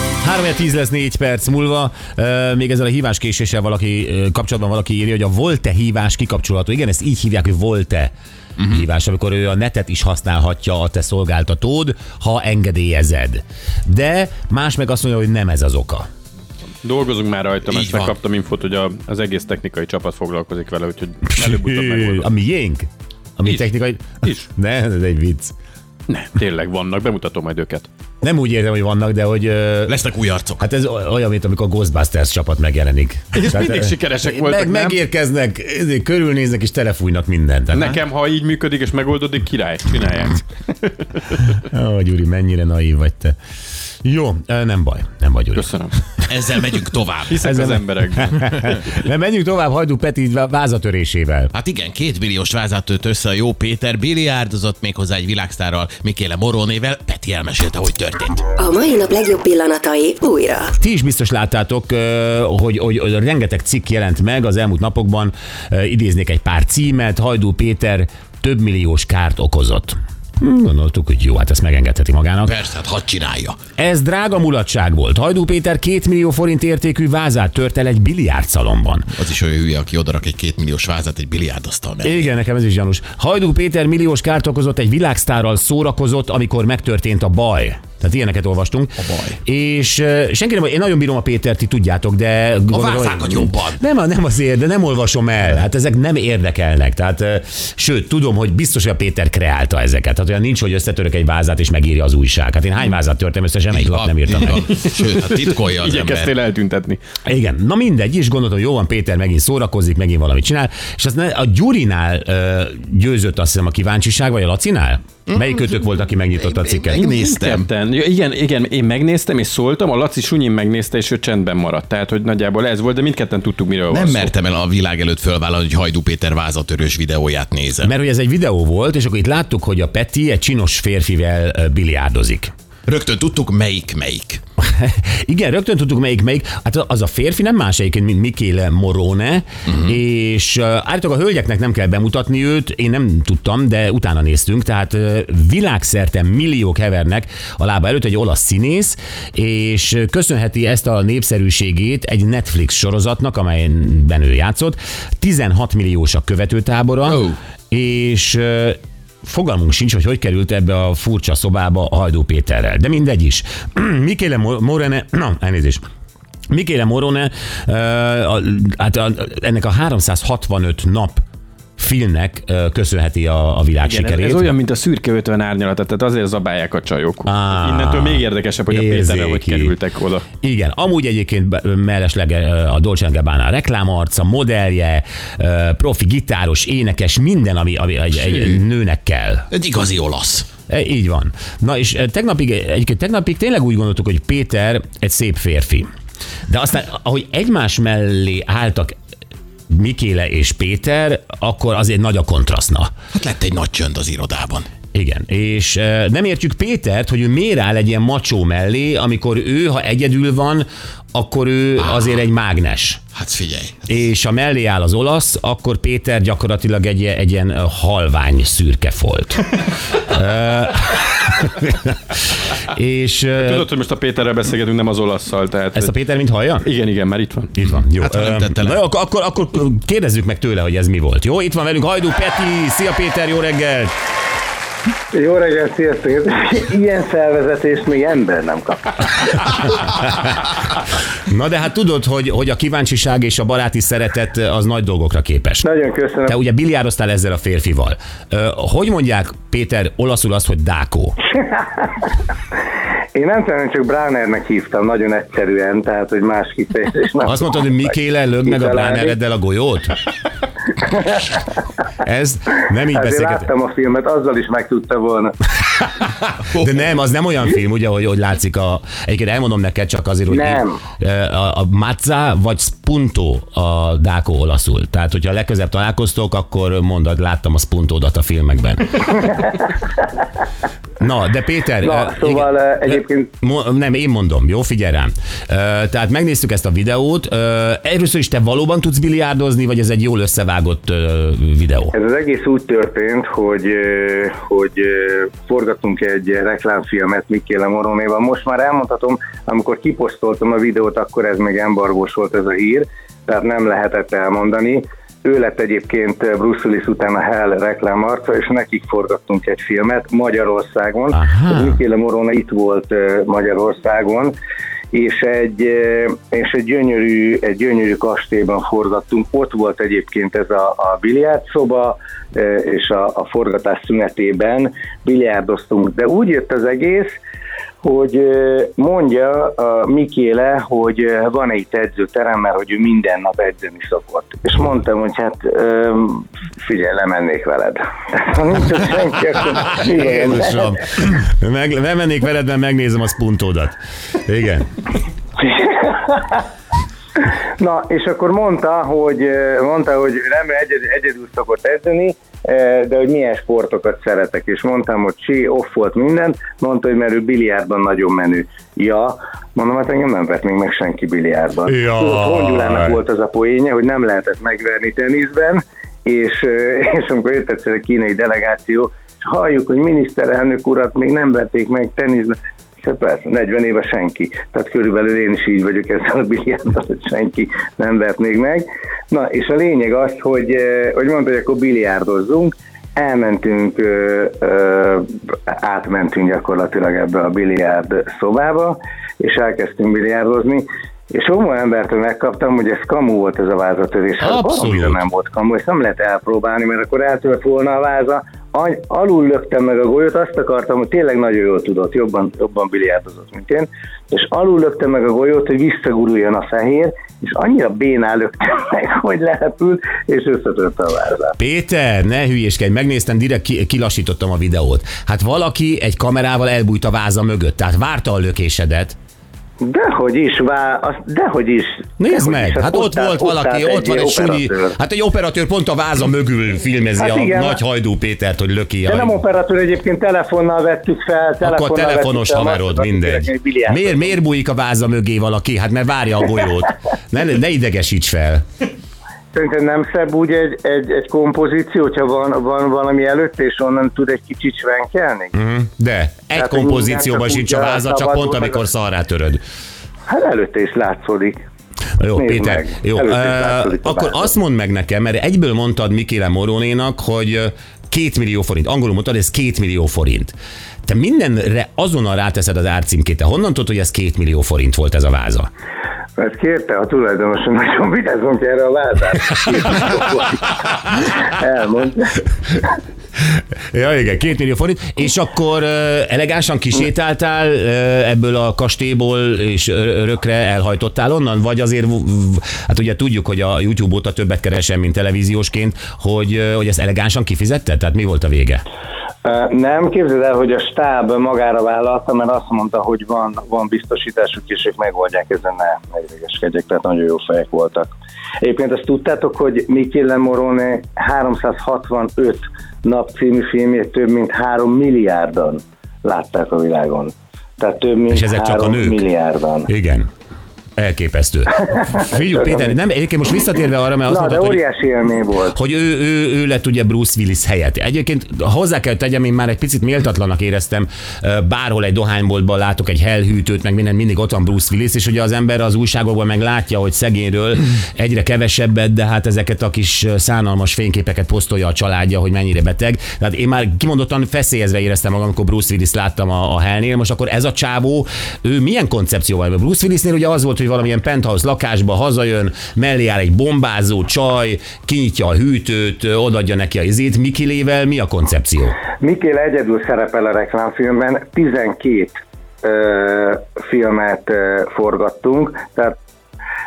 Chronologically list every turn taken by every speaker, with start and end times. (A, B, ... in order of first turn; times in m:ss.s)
0:00.2-0:08.1 A
0:08.6-0:16.0 A
0:16.8-0:22.3 B
0:17.6-0:18.2 C
0:21.3-0:25.5 A
0:24.2-0:24.5 B
0:26.1-0:27.9 B
0:28.2-0:30.0 A
0:29.9-0:30.6 C
0:30.6-0:38.0 A
0:33.3-0:35.0 B
0:37.7-0:41.6 B
0:41.7-0:43.4 A
0:44.0-0:45.6 A
0:45.6-0:45.9 B
0:46.3-0:47.4 C
0:47.3-0:48.8 B
0:47.4-0:51.5 A
0:51.5-0:58.5 C
0:58.6-1:00.7 D
1:00.8-1:12.5 A
1:12.4-1:13.6 C
1:13.8-1:19.1 A
1:19.1-1:22.3 C
1:22.0-1:44.6 A
1:29.0-1:29.4 C
1:32.7-1:33.8 C
1:43.7-1:46.4 C
1:44.5-1:47.0 B
1:47.2-1:57.0 A
1:56.6-1:57.7 C
1:57.0-2:04.3 B
2:03.9-2:07.9 C
2:07.8-2:12.5 A
2:12.9-2:14.4 C
2:14.6-2:45.8 A
2:19.7-2:19.9 C
2:37.1-2:37.4 C
2:46.5-2:51.2 A
2:51.8-2:54.5 A
2:53.8-3:00.2 B
2:57.2-2:59.7 A
3:00.4-3:09.5 A
3:08.2-3:08.6 C
3:09.5-3:10.5 C
3:10.7-3:15.9 A
3:16.5-3:18.9 A
3:19.7-3:22.9 A
3:23.1-3:24.7 C
3:24.9-3:33.0 A
3:31.8-3:32.2 C
3:33.1-3:33.8 C
3:33.9-3:43.6 A
3:43.4-3:45.9 B
3:45.7-3:46.6 A
3:46.6-3:47.5 B
3:47.5-3:53.9 A
3:47.6-3:48.8 C
3:55.1-3:59.5 E
4:01.2-4:05.6 A
4:05.6-4:06.4 E
4:06.3-4:11.2 A
4:11.5-4:12.0 E
4:13.1-4:17.7 E
4:17.2-4:20.0 A
4:18.4-4:19.2 E
4:20.8-4:21.2 E
4:22.0-4:23.5 A
4:22.9-4:25.4 E
4:26.0-4:39.5 A
4:26.5-4:26.8 C
4:30.3-4:30.8 E
4:41.0-4:51.9 A
4:41.8-4:43.3 E
4:51.9-5:14.3 E
5:11.1-5:11.8 A
5:14.9-5:27.1 E
5:27.8-5:40.6 E
5:39.7-5:44.7 A
5:45.4-5:46.4 E
5:47.6-6:51.3 E
6:01.6-6:03.0 A
6:34.2-6:35.0 A
6:51.4-6:59.0 A
6:59.6-7:04.8 E
7:02.0-7:09.2 A
7:07.0-7:07.6 E
7:08.8-7:14.2 E
7:11.4-7:18.4 A
7:19.3-7:25.4 E
7:25.3-7:29.4 A
7:26.3-7:28.6 E
7:30.1-7:31.4 E
7:32.0-7:45.5 A
7:32.2-7:34.3 E
7:46.2-7:52.2 E
7:53.7-8:08.6 A
8:09.2-8:17.9 E
8:18.4-8:29.7 E
8:28.1-8:29.0 A
8:29.7-8:30.1 A
8:30.8-8:34.6 A
8:32.4-8:32.7 E
8:34.1-8:35.6 E
8:35.5-9:08.8 A
9:09.0-9:15.9 E